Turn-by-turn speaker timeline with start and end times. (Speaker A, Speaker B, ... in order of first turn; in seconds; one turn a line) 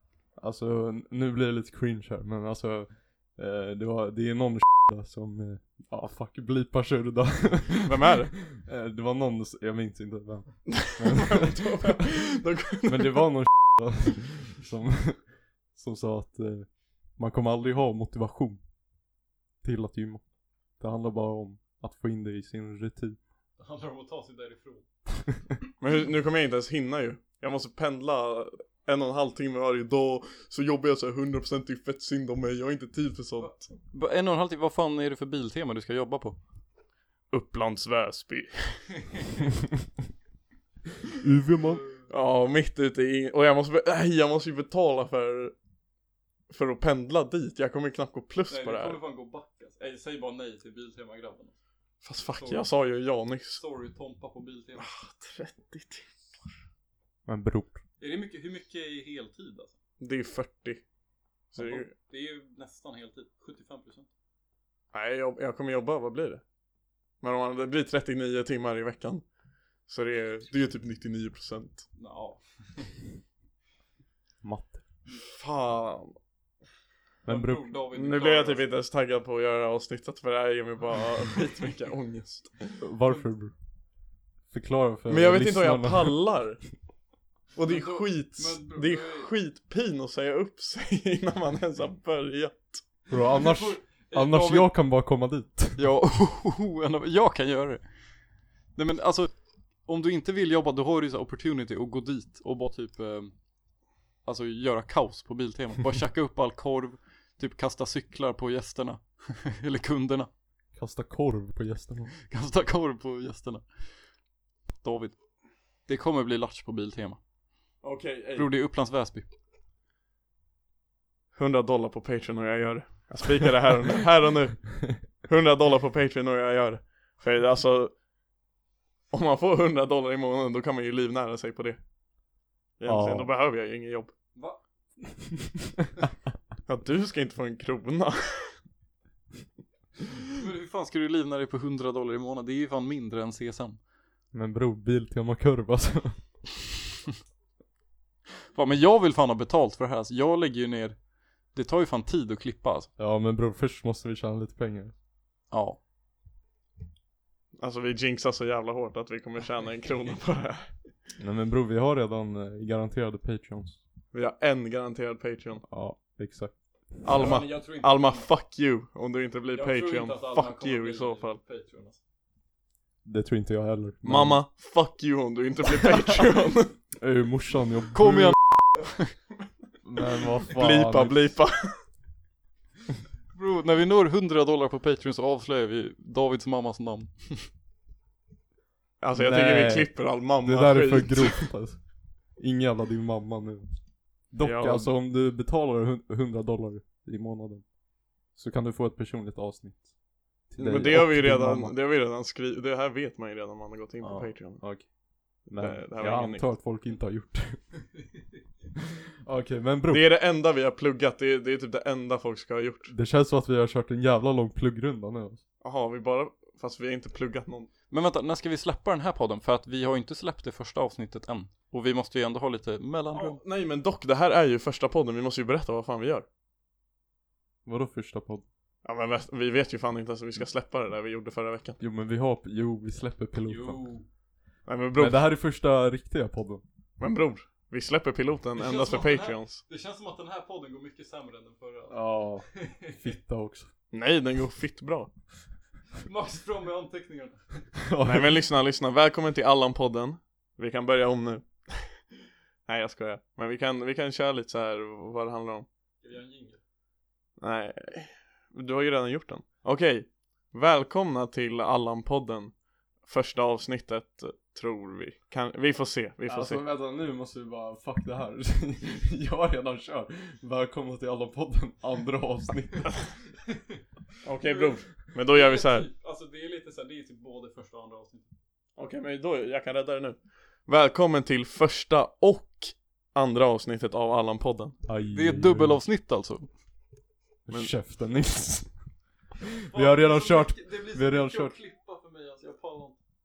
Speaker A: 0.4-12.2
Speaker B: 7.8-8.3
Speaker B: 10.7-13.2
Speaker A: 12.8-15.2
Speaker A: 15.7-18.6
Speaker A: 19.6-20.2
Speaker A: 20.8-23.2
Speaker C: 23.6-24.8
Speaker B: 25.8-33.7
Speaker C: 33.4-36.4
Speaker B: 37.3-39.5
Speaker A: 41.2-41.8
Speaker C: 41.7-42.0
Speaker B: 42.1-45.5
Speaker B: 46.5-49.0
Speaker C: 48.5-51.5
Speaker B: 52.0-53.6
Speaker C: 52.3-52.7
Speaker C: 53.6-54.9
Speaker B: 54.8-56.1
Speaker A: 57.2-57.8
Speaker C: 58.0-59.7
Speaker B: 60.0-60.8
Speaker B: 61.5-61.9
Speaker C: 61.6-64.1
Speaker B: 64.9-66.4
Speaker B: 67.2-69.2
Speaker B: 69.9-71.8
Speaker C: 72.0-72.9
Speaker A: 74.4-74.8
Speaker B: 75.1-76.2
Speaker A: 77.2-77.7
Speaker C: 77.3-78.7
Speaker B: 77.9-82.8
Speaker A: 82.8-83.5
Speaker A: 84.5-86.2
Speaker B: 85.1-86.6
Speaker B: 87.5-92.8
Speaker C: 87.7-89.3
Speaker A: 93.1-95.8
Speaker C: 93.3-94.7
Speaker C: 95.8-97.8
Speaker C: 98.8-99.3
Speaker C: 99.8-103.3
Speaker C: 104.2-110.3
Speaker A: 110.7-112.1
Speaker C: 112.2-113.7
Speaker C: 114.8-115.2
Speaker C: 115.9-117.2
Speaker B: 117.8-118.5
Speaker C: 118.3-119.3
Speaker B: 121.3-127.9
Speaker B: 129.1-131.8
Speaker B: 132.8-134.1
Speaker A: 132.8-133.3
Speaker C: 134.3-134.6
Speaker B: 136.7-138.6
Speaker C: 140.3-143.8
Speaker A: 144.3-146.2
Speaker C: 148.5-151.0
Speaker C: 151.5-152.9
Speaker A: 153.0-154.9
Speaker C: 155.5-155.8
Speaker B: 157.6-160.7
Speaker A: 161.2-163.8
Speaker B: 164.1-165.6
Speaker A: 165.7-167.2
Speaker B: 167.0-171.4
Speaker C: 167.1-168.3
Speaker C: 169.5-172.0
Speaker A: 173.0-174.4
Speaker B: 174.0-176.7
Speaker A: 175.8-176.3
Speaker A: 177.0-178.4
Speaker C: 177.9-179.1
Speaker A: 179.8-181.2
Speaker B: 180.5-181.8
Speaker C: 183.3-187.5
Speaker B: 189.0-191.5
Speaker A: 189.1-191.8
Speaker A: 192.4-193.8
Speaker A: 194.3-197.6
Speaker B: 194.4-194.9
Speaker A: 198.3-199.9
Speaker A: 200.5-201.7
Speaker B: 200.6-204.6
Speaker A: 204.0-204.9
Speaker A: 205.4-207.6
Speaker B: 205.6-206.5
Speaker A: 209.2-210.1
Speaker B: 209.9-212.9
Speaker A: 212.9-215.4
Speaker B: 215.6-217.7
Speaker C: 217.9-223.4
Speaker B: 223.1-226.2
Speaker A: 227.7-228.4
Speaker B: 228.8-231.8
Speaker A: 231.8-233.8
Speaker C: 233.4-234.1
Speaker B: 234.7-235.2
Speaker A: 235.0-236.6
Speaker B: 237.0-239.6
Speaker C: 238.6-243.1
Speaker A: 241.9-243.7
Speaker B: 243.9-245.1
Speaker C: 246.0-247.6
Speaker A: 247.8-248.4
Speaker B: 248.0-251.9
Speaker B: 252.7-255.7
Speaker C: 256.0-256.6
Speaker B: 257.4-262.5
Speaker B: 263.1-266.6
Speaker A: 266.3-273.0
Speaker C: 273.5-273.8
Speaker B: 274.2-275.9
Speaker C: 274.4-278.3
Speaker B: 278.8-284.8
Speaker A: 284.9-285.8
Speaker C: 285.1-286.5
Speaker A: 287.4-288.7
Speaker A: 289.4-291.6
Speaker C: 289.7-293.0